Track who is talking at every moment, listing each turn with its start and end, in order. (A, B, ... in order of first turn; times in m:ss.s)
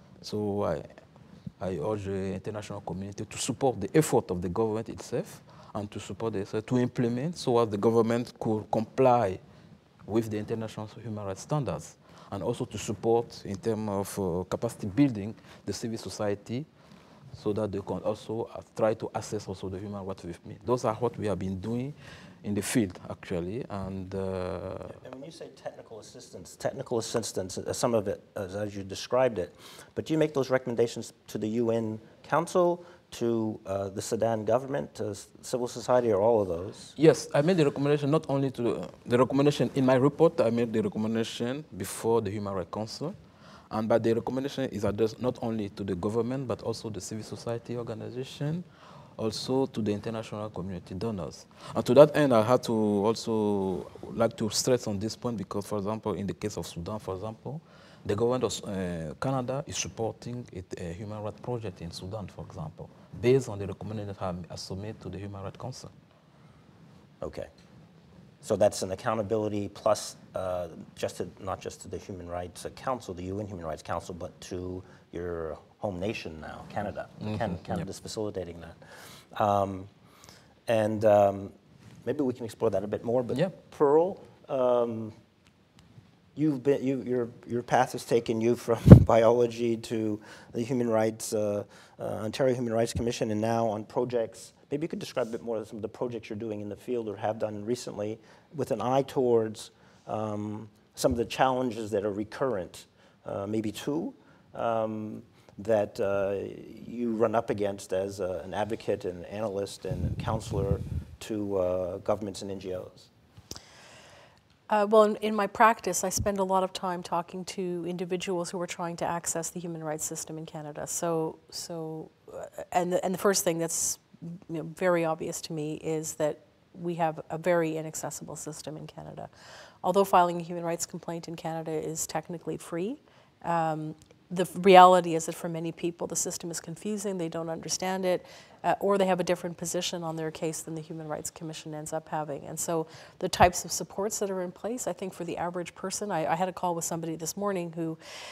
0:00.2-0:00.9 A
0:01.6-0:09.4 A
0:10.1-0:16.7 A
0:17.3-0:25.0 A
0:24.9-0:36.9 B
0:37.0-0:43.2 A
0:43.7-0:48.6 A
0:49.2-1:05.9 A
1:07.2-1:07.5 B
1:08.4-1:19.9 B
1:17.2-1:17.8 A
1:20.7-1:25.1 B
1:26.4-1:53.1 B
1:54.7-2:09.3 C
2:09.8-2:28.0 C